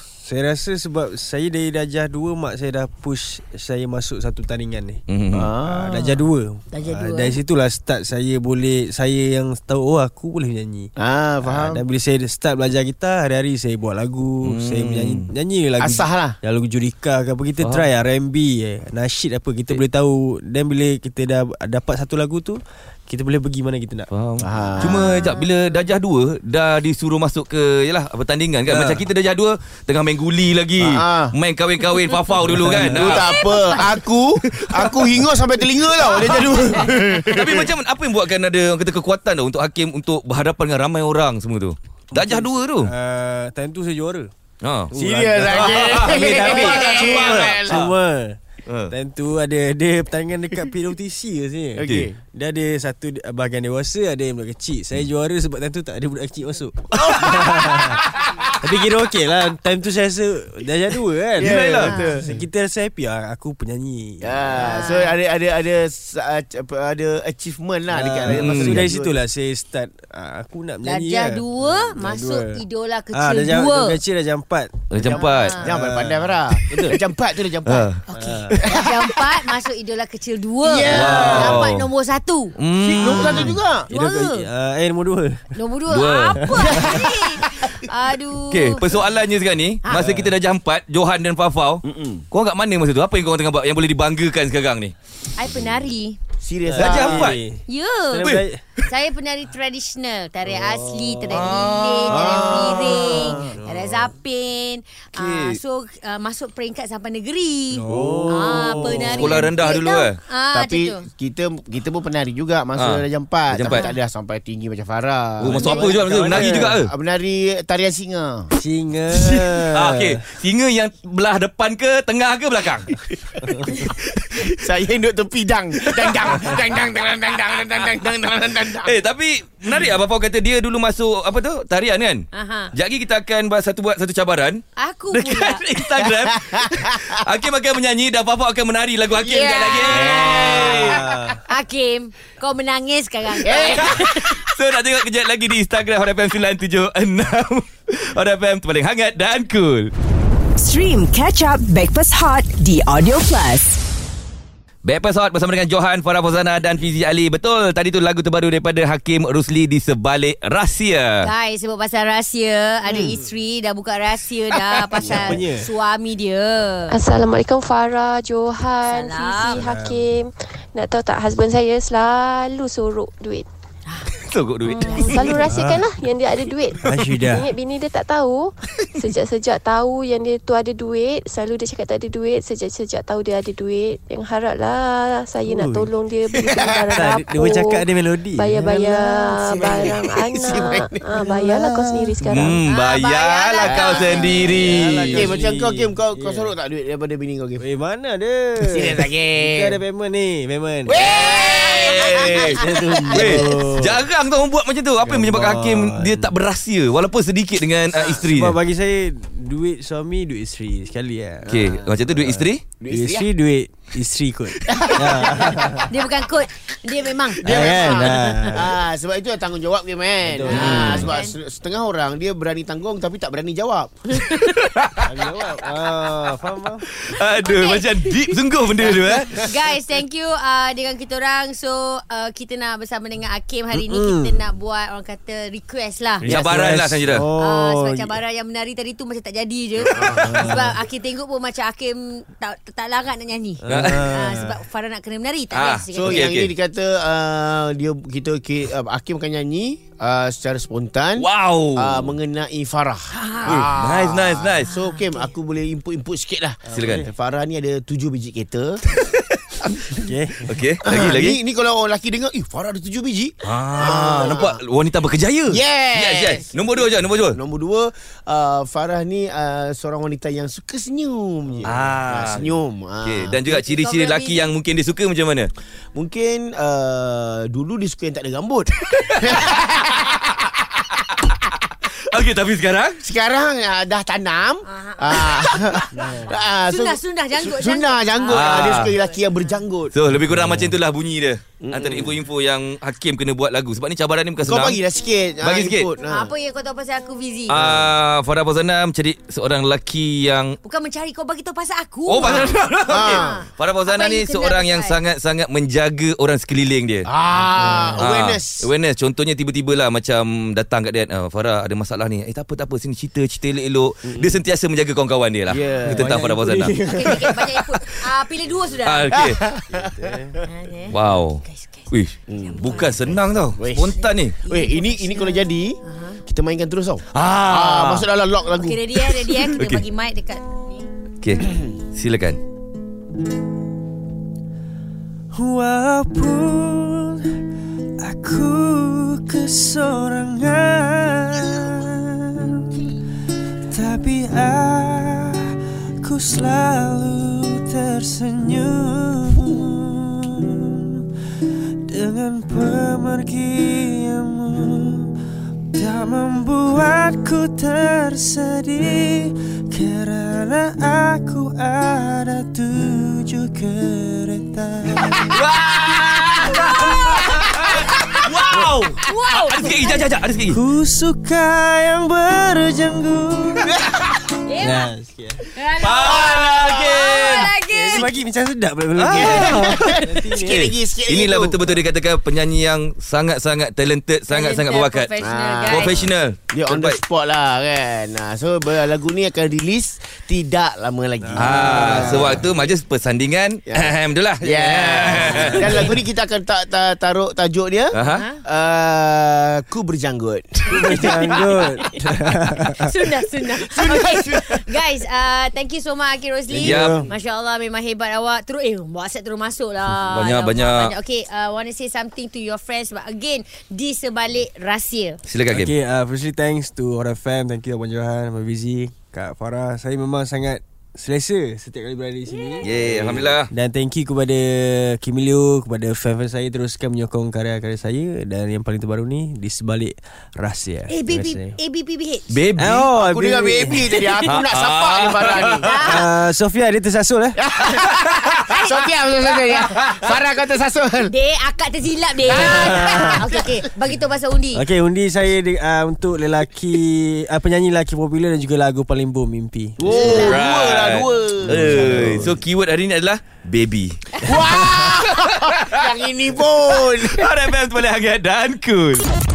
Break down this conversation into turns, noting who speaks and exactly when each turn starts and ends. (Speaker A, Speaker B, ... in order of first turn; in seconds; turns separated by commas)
Speaker A: 0.2-5.0, Speaker B: 5.1-5.5, Speaker C: 5.3-6.2, Speaker A: 5.6-10.9, Speaker D: 6.7-7.4, Speaker C: 11.0-11.8, Speaker A: 11.4-24.1, Speaker B: 14.4-15.3, Speaker C: 15.8-16.4, Speaker B: 17.6-17.9, Speaker B: 24.1-33.3, Speaker C: 24.4-25.3, Speaker A: 28.7-29.0, Speaker C: 30.8-31.3, Speaker A: 32.5-33.2, Speaker C: 32.7-37.7, Speaker D: 33.3-34.0, Speaker B: 34.5-35.1, Speaker B: 36.0-36.5, Speaker B: 37.2-42.9, Speaker A: 42.1-44.3, Speaker B: 44.6-44.9, Speaker A: 44.9-64.7, Speaker C: 44.9-47.8, Speaker B: 45.5-47.9, Speaker B: 48.7-48.9, Speaker C: 51.7-52.2, Speaker B: 56.9-57.5, Speaker C: 57.0-57.3, Speaker B: 61.4-62.0, Speaker C: 61.4-62.4, Speaker D: 61.8-62.1, Speaker C: 64.2-69.2, Speaker D: 64.6-65.2, Speaker A: 67.9-74.9, Speaker B: 68.3-68.9, Speaker D: 70.8-74.0, Speaker B: 74.9-75.6, Speaker C: 75.0-77.9, Speaker D: 75.1-75.7, Speaker A: 75.6-77.0, Speaker B: 77.7-78.6, Speaker A: 78.1-78.6, Speaker D: 78.2-82.5, Speaker C: 78.6-78.9, Speaker C: 80.6-81.7, Speaker B: 80.9-81.8, Speaker A: 80.9-81.6, Speaker B: 82.6-83.5, Speaker C: 82.8-83.9, Speaker A: 83.2-85.5, Speaker D: 83.9-84.5, Speaker D: 85.5-88.8, Speaker B: 85.9-86.6, Speaker A: 86.3-87.1, Speaker C: 86.7-87.1, Speaker B: 88.5-94.9, Speaker D: 89.8-90.1, Speaker A: 90.0-90.3, Speaker C: 91.8-92.2, Speaker D: 95.3-96.2, Speaker C: 96.4-97.3, Speaker A: 96.6-98.6, Speaker B: 96.8-97.4, Speaker D: 97.7-98.3, Speaker B: 98.2-98.8, Speaker D: 98.8-111.1, Speaker A: 100.4-101.4, Speaker B: 101.3-102.5, Speaker C: 102.1-103.5, Speaker A: 103.0-104.1, Speaker B: 105.2-105.6, Speaker A: 107.7-109.5, Speaker C: 107.9-109.0, Speaker B: 109.1-110.2, Speaker C: 110.5-118.5, Speaker B: 112.8-113.9, Speaker B: 115.4-116.9, Speaker A: 115.5-116.8, Speaker A: 118.5-120.1, Speaker B: 119.1-122.9, Speaker C: 122.9-128.9, Speaker A: 123.4-123.8, Speaker B: 126.0-126.2, Speaker B: 128.8-132.2, Speaker D: 132.3-132.7, Speaker B: 132.7-134.6, Speaker D: 134.8-135.7, Speaker B: 135.1-141.0, Speaker C: 136.0-137.2, Speaker C: 139.2-141.2, Speaker A: 139.9-141.4, Speaker D: 141.4-144.4, Speaker C: 143.4-144.0, Speaker B: 143.6-149.9, Speaker E: 150.6-153.8, Speaker B: 154.8-161.3, Speaker D: 161.2-167.0, Speaker C: 165.0-165.4, Speaker A: 165.1-165.7, Speaker F: 166.9-173.4, Speaker D: 168.9-169.6, Speaker A: 169.5-170.0, Speaker B: 174.2-175.0, Speaker D: 174.7-175.6, Speaker F: 174.8-192.6, Speaker A: 175.4-175.9, Speaker A: 176.8-177.5, Speaker C: 186.4-186.9, Speaker A: 186.8-190.0, Speaker C: 189.4-191.9, Speaker B: 192.3-195.3, Speaker D: 192.7-194.6, Speaker C: 193.6-194.5, Speaker A: 194.3-196.5, Speaker C: 195.1-197.6, Speaker A: 197.6-201.0, Speaker C: 198.7-199.8, Speaker C: 200.8-203.6, Speaker B: 200.9-208.6, Speaker A: 202.3-204.0, Speaker A: 205.0-206.3, Speaker C: 207.9-208.2, Speaker A: 208.3-211.5, Speaker C: 211.4-212.2, Speaker B: 211.5-212.6, Speaker A: 212.3-215.9, Speaker C: 212.8-213.3, Speaker C: 214.7-215.6, Speaker D: 215.9-217.4, Speaker A: 217.4-218.7, Speaker C: 217.4-224.0, Speaker B: 217.9-218.2, Speaker D: 218.2-218.5, Speaker A: 220.2-221.1, Speaker D: 220.5-221.3, Speaker B: 220.5-221.1, Speaker B: 224.3-225.1, Speaker A: 225.0-226.8, Speaker C: 225.1-225.6, Speaker B: 226.9-229.5, Speaker D: 227.4-228.3, Speaker D: 229.3-236.3, Speaker A: 233.7-234.4, Speaker A: 236.2-238.2, Speaker B: 236.2-237.3, Speaker D: 237.4-246.3, Speaker C: 239.8-240.5, Speaker A: 240.1-240.8, Speaker A: 243.6-244.6, Speaker B: 243.7-244.1, Speaker B: 245.5-246.5, Speaker C: 245.9-258.8, Speaker B: 251.2-252.1, Speaker D: 253.1-253.7, Speaker B: 253.4-254.7, Speaker D: 254.7-255.3, Speaker A: 256.7-257.1, Speaker B: 256.7-257.1, Speaker C: 259.6-260.1, Speaker A: 260.0-260.6, Speaker B: 260.4-261.4, Speaker C: 260.9-264.6, Speaker B: 263.4-267.4, Speaker C: 265.5-273.4, Speaker B: 271.6-275.5, Speaker D: 273.5-274.5, Speaker C: 275.9-280.3, Speaker B: 279.0-280.1, Speaker B: 282.1-283.0, Speaker C: 283.0-289.9, Speaker D: 284.6-285.3, Speaker A: 285.9-286.4, Speaker D: 286.6-289.6, Speaker B: 288.3-288.9, Speaker B: 289.9-294.8, Speaker A: 290.3-290.7, Speaker C: 291.6-292.2, Speaker C: 294.4-296.3, Speaker B: 295.4-295.9, Speaker D: 296.1-297.6, Speaker B: 297.5-300.6, Speaker C: 297.5-297.9, Speaker D: 300.6-305.0, Speaker B: 302.1-307.1, Speaker C: 302.2-303.4, Speaker C: 307.1-308.7, Speaker A: 307.6-308.0, Speaker B: 308.0-316.8, Speaker C: 314.1-314.3, Speaker C: 315.5-316.3, Speaker A: 315.9-317.5, Speaker D: 316.8-319.1, Speaker B: 318.8-319.4, Speaker C: 319.1-320.3, Speaker A: 319.7-320.4, Speaker D: 320.4-323.2, Speaker B: 320.9-324.4, Speaker C: 322.3-322.8, Speaker C: 323.5-329.5, Speaker D: 323.9-326.2, Speaker B: 327.1-328.1, Speaker D: 328.5-330.9, Speaker B: 329.6-329.8, Speaker B: 331.2-332.4, Speaker C: 331.4-331.7, Speaker A: 335.3-337.4, Speaker A: 338.0-342.9, Speaker A: 343.7-351.0, Speaker A: 351.6-355.1, Speaker A: 355.7-365.4, Speaker B: 365.2-370.6, Speaker C: 365.3-366.4, Speaker D: 366.6-367.3, Speaker C: 367.7-368.7, Speaker D: 369.0-370.1, Speaker A: 370.5-373.8, Speaker C: 373.6-374.0, Speaker D: 374.4-374.9, Speaker A: 374.6-375.5, Speaker D: 375.5-378.1, Speaker B: 375.8-377.5, Speaker C: 376.0-377.2, Speaker A: 377.6-380.8, Speaker B: 378.9-379.8, Speaker C: 379.1-381.7, Speaker B: 381.1-385.1, Speaker D: 384.3-386.0, Speaker C: 385.2-392.5, Speaker B: 385.7-387.0, Speaker A: 391.2-392.4, Speaker B: 391.4-395.8, Speaker C: 393.7-401.4, Speaker A: 395.1-395.9, Speaker D: 395.5-395.9, Speaker B: 397.9-398.2, Speaker D: 398.1-398.4, Speaker A: 400.7-402.9, Speaker D: 402.8-415.2, Speaker C: 403.6-404.8, Speaker A: 406.5-407.1, Speaker B: 406.6-407.0, Speaker B: 410.1-410.9, Speaker B: 415.2-415.7, Speaker A: 415.5-431.5, Speaker B: 422.6-423.5, Speaker D: 430.9-432.4, Speaker B: 432.3-432.9, Speaker A: 432.6-433.9, Speaker C: 432.9-435.9, Speaker B: 434.2-435.8, Speaker D: 435.6-436.1, Speaker A: 435.8-437.4, Speaker C: 437.4-441.1, Speaker D: 438.5-438.8, Speaker D: 441.0-444.6, Speaker C: 442.3-443.6, Speaker A: 442.3-443.2, Speaker A: 444.5-449.8, Speaker C: 449.8-452.3, Speaker D: 449.9-450.4, Speaker B: 450.0-454.0, Speaker A: 451.5-452.4, Speaker C: 454.2-457.3, Speaker B: 455.1-455.9, Speaker B: 456.8-459.0